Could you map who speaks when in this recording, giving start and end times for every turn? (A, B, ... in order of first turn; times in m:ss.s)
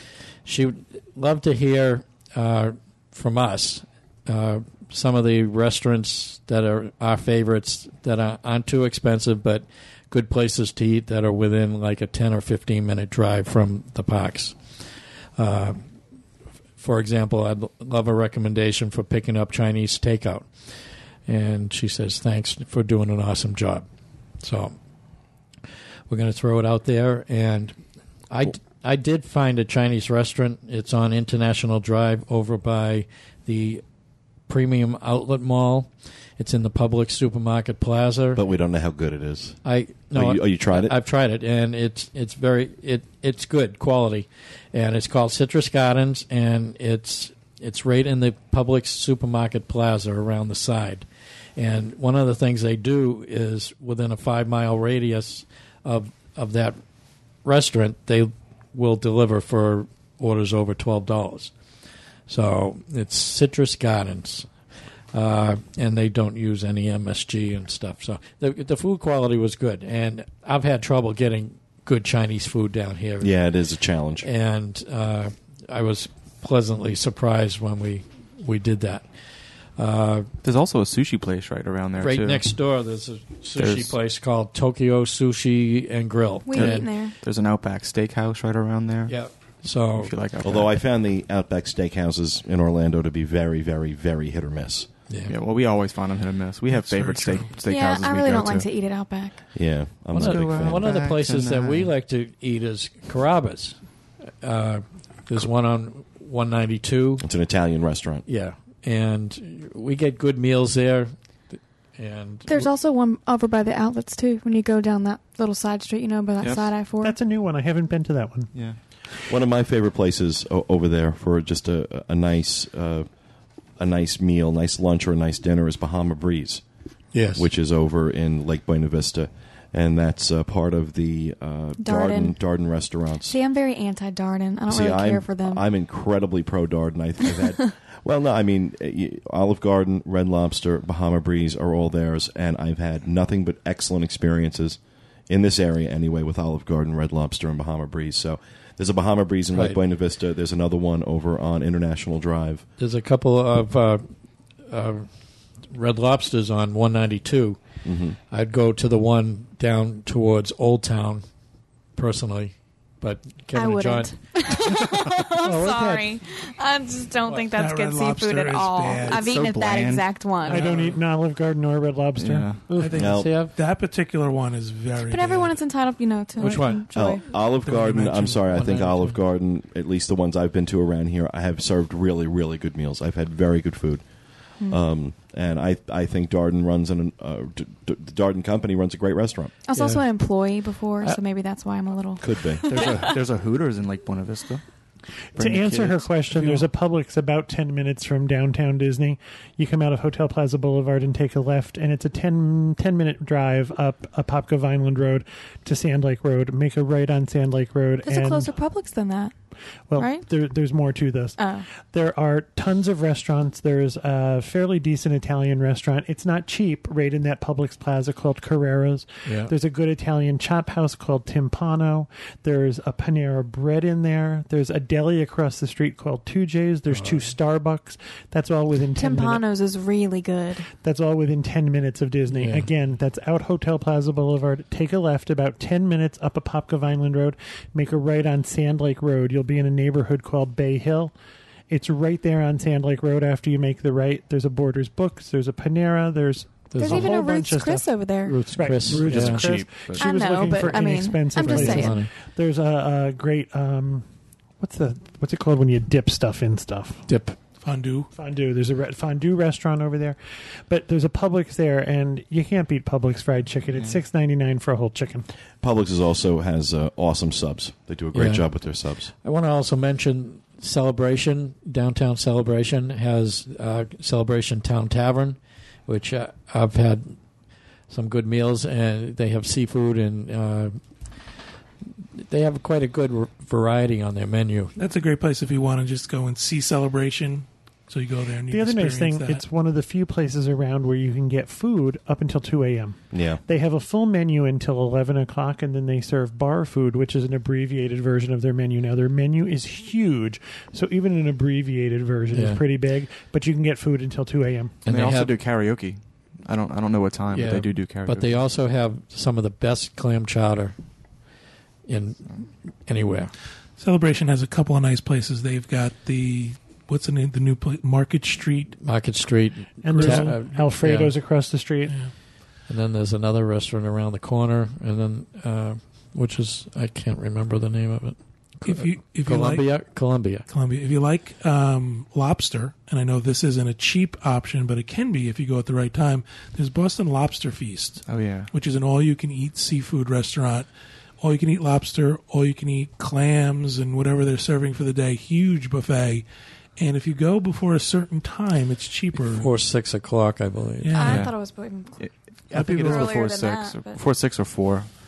0:00.4-0:14.6 A
0:15.4-0:15.8 A
0:16.8-0:20.5 A
0:21.2-0:23.8 A
0:24.4-0:24.7 A
0:26.1-0:27.8 A
0:28.3-0:33.8 A
0:34.5-0:38.4 A
0:38.3-0:39.6 B
0:39.6-0:51.0 A
0:40.1-0:41.0 B
0:51.6-0:56.8 A
0:57.4-1:01.5 A
1:02.3-1:04.5 A
1:05.1-1:13.3 A
1:13.2-1:14.3 B
1:14.2-1:19.0 A
1:19.8-1:20.3 A
1:20.4-1:22.4 C
1:22.0-1:26.9 A
1:23.6-1:23.9 C
1:26.4-1:27.2 D
1:26.5-1:29.1 C
1:29.1-1:30.1 A
1:29.9-1:30.8 C
1:30.4-1:34.9 B
1:35.1-1:35.3 A
1:35.3-1:38.6 C
1:36.7-1:37.6 E
1:37.6-1:39.4 D
1:39.5-1:40.9 B
1:40.1-1:41.9 C
1:40.1-1:43.8 A
1:44.4-1:47.2 A
1:47.2-1:48.2 B
1:48.2-1:52.7 A
1:52.5-1:57.2 D
1:56.4-1:56.7 C
1:57.0-1:58.5 F
1:59.3-2:03.1 B
2:03.8-2:06.6 B
2:07.1-2:07.5 A
2:07.4-2:13.4 B
2:11.8-2:12.4 D
2:13.2-2:15.6 D
2:14.7-2:32.6 B
2:32.8-2:34.0 A
2:34.7-2:35.1 A
2:35.7-2:37.6 A
2:37.8-2:38.2 B
2:38.3-2:41.2 A
2:42.0-2:44.1 A
2:43.5-2:50.7 D
2:45.4-2:45.7 F
2:45.5-2:46.0 A
2:47.5-2:49.3 E
2:49.1-2:50.1 C
2:50.4-2:52.9 F
2:50.5-2:51.0 E
2:52.2-2:52.6 C
2:52.7-2:53.5 A
2:52.7-2:55.6 E
2:53.0-2:53.3 B
2:55.0-2:57.2 D
2:56.4-2:56.8 A
2:56.9-3:04.0 B
2:57.6-2:59.2 A
2:57.7-2:58.3 E
3:04.7-3:09.5 B
3:09.6-3:13.0 D
3:09.8-3:10.0 A
3:12.2-3:12.6 B
3:12.7-3:14.6 C
3:12.8-3:13.1 F
3:15.4-3:16.6 C
3:15.4-3:28.5 F
3:28.0-3:29.3 D
3:29.9-3:31.4 F
3:30.0-3:30.3 D
3:31.4-3:31.6 D
3:31.9-3:49.4 F
3:39.2-3:39.5 A
3:46.9-3:47.3 A
3:49.0-3:50.7 D
3:50.8-4:01.1 F
3:52.3-3:52.7 A
4:01.7-4:14.0 F
4:06.7-4:07.1 A
4:06.7-4:08.4 D
4:08.3-4:09.5 A
4:08.8-4:10.1 C
4:10.0-4:12.0 D
4:11.4-4:12.1 A
4:14.6-4:17.0 F
4:17.1-4:17.4 A
4:17.6-4:18.1 E
4:18.1-4:20.2 F
4:20.7-4:25.3 F
4:23.7-4:24.0 C
4:25.6-4:29.1 B
4:28.1-4:28.4 A
4:29.2-4:37.1 A
4:37.9-4:40.8 A
4:42.2-4:44.7 A
4:44.8-4:49.4 E
4:48.5-5:04.7 F
4:53.1-4:53.4 B
5:02.3-5:02.6 A
5:04.8-5:05.3 A
5:04.9-5:08.4 C
5:07.3-5:10.7 A
5:11.9-5:13.3 A
5:13.8-5:18.8 E
5:18.8-5:21.1 A
5:19.8-5:22.0 F
5:19.9-5:20.4 E
5:22.7-5:30.4 A
5:28.6-5:29.7 E
5:30.5-5:40.7 E
5:38.1-5:38.5 C
5:41.2-5:46.2 E
5:46.8-5:49.5 E
5:49.3-5:51.2 A
5:50.8-5:51.2 E
5:50.9-5:52.1 D
5:51.0-5:51.3 C
5:52.0-5:54.9 C
5:52.5-5:53.1 E
5:52.7-5:54.0 D